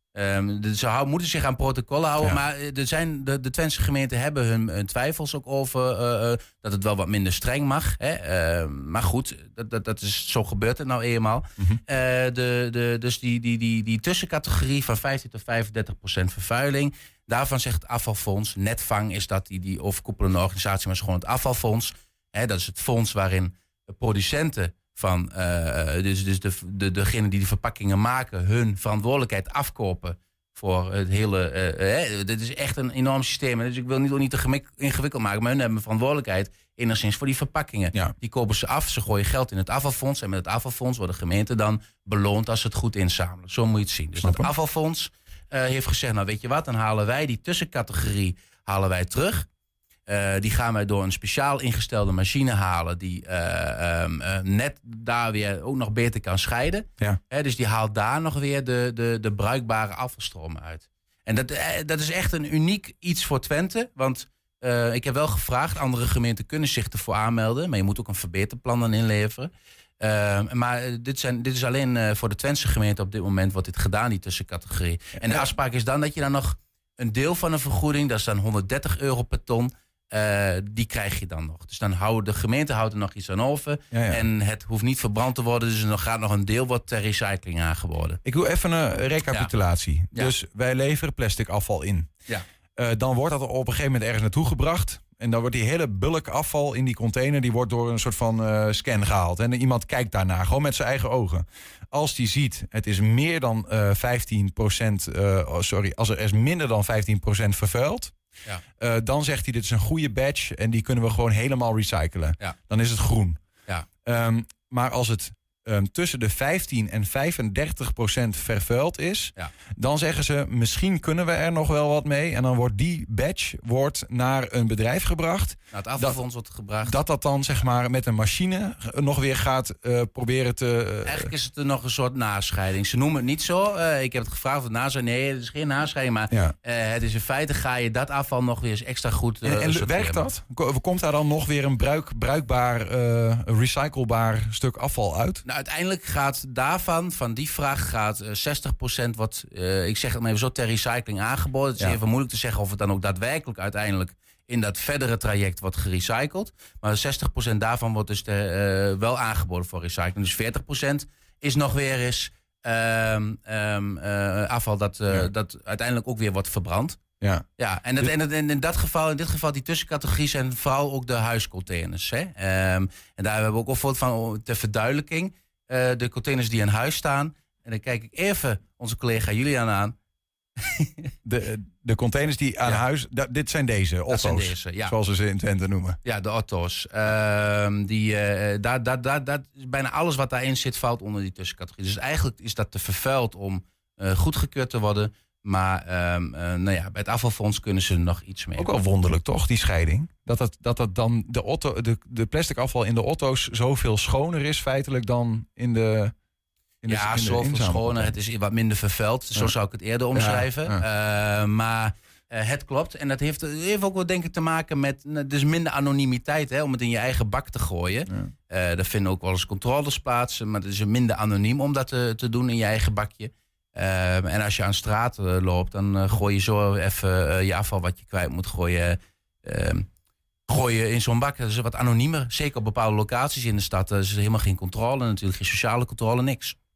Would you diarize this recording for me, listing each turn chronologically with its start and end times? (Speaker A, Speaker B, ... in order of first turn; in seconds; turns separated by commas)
Speaker A: 0.1-49.5, Speaker B: 44.2-44.5, Speaker A: 50.1-88.2, Speaker B: 75.2-75.5, Speaker B: 83.9-84.2, Speaker B: 88.2-92.1, Speaker B: 92.8-108.1, Speaker B: 108.8-113.4, Speaker B: 114.0-126.2, Speaker A: 125.7-127.0, Speaker B: 126.8-131.3, Speaker A: 131.1-140.2, Speaker B: 139.4-145.4, Speaker A: 145.4-167.0, Speaker B: 167.2-167.5, Speaker A: 167.6-179.9, Speaker A: 180.6-181.1, Speaker B: 181.2-186.0, Speaker A: 184.1-184.9, Speaker A: 186.1-198.7, Speaker B: 198.6-206.1, Speaker B: 206.8-208.1, Speaker A: 206.9-229.9, Speaker B: 210.1-210.8, Speaker A: 230.5-236.6